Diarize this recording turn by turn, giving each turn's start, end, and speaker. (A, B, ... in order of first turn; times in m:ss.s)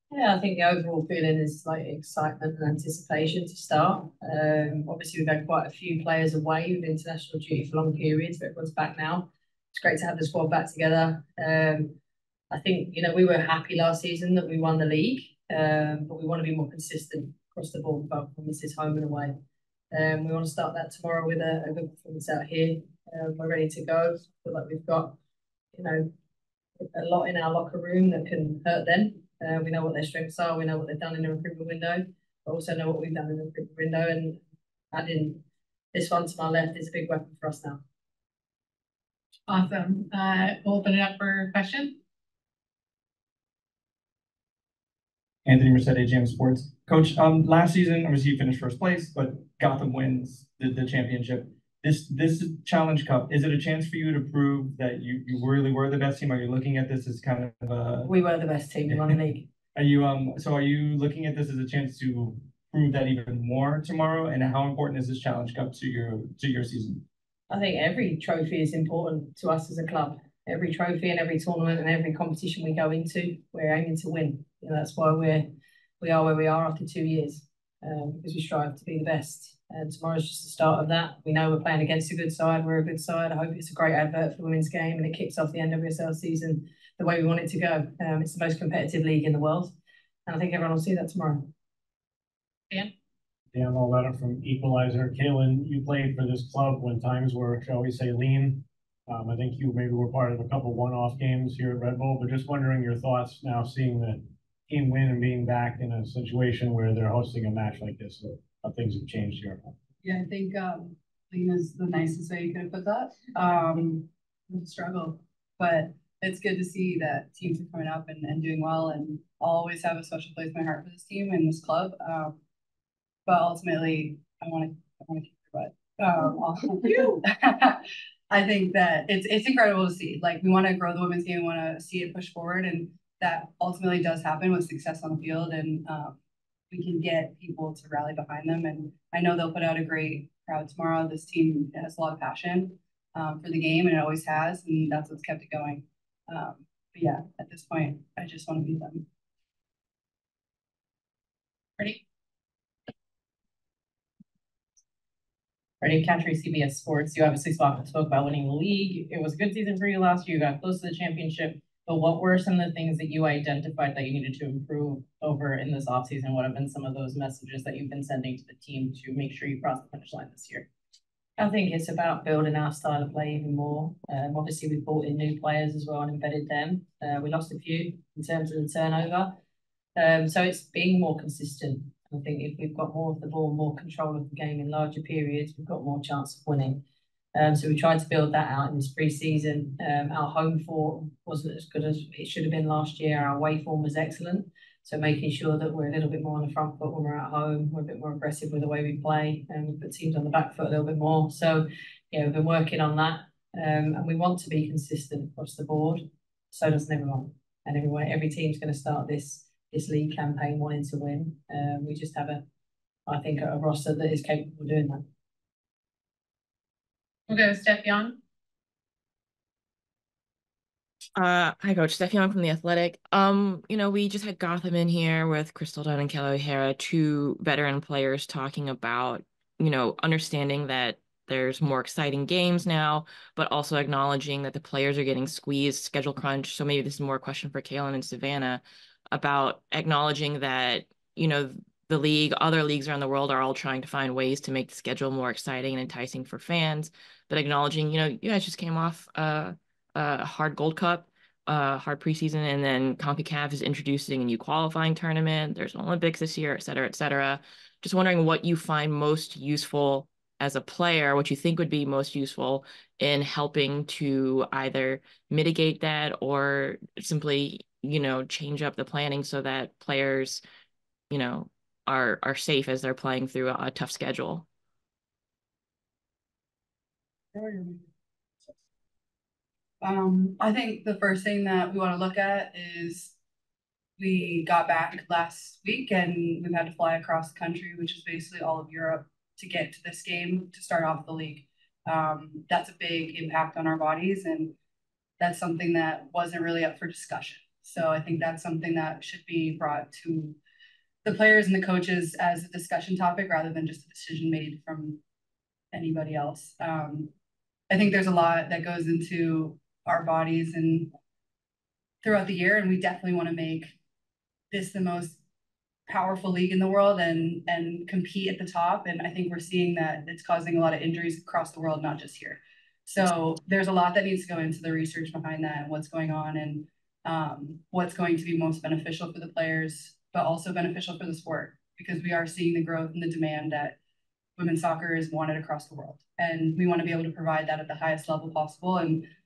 0:00.1-0:12.0 A
0:12.5-0:19.4 A
0:19.9-0:25.2 A
0:25.7-0:26.1 A
0:26.8-0:34.4 A
0:34.9-0:37.8 A
0:39.5-0:42.0 B
0:45.4-0:58.1 C
0:58.0-0:59.5 A
0:59.7-1:07.0 C
1:07.5-1:29.7 A
1:30.3-1:31.5 A
1:33.5-1:49.7 D
1:50.0-2:02.4 E
2:03.2-2:16.2 E
2:16.7-2:29.0 E
2:35.8-2:50.6 F
2:51.4-2:59.3 A
3:00.0-3:06.8 A
3:07.3-3:32.4 A
3:33.1-3:35.0 A
3:37.3-3:38.2 B
3:41.2-4:30.4 G
4:31.1-4:34.4 G
4:37.3-4:37.8 E
4:39.8-4:43.1 E
4:44.0-4:54.5 E
4:55.2-5:00.4 E
5:01.0-5:05.0 E
5:05.7-5:07.1 E
5:07.7-5:10.9 E
5:12.0-5:13.7 E
5:14.5-5:15.2 E
5:15.9-5:33.8 E
5:34.4-5:39.1 E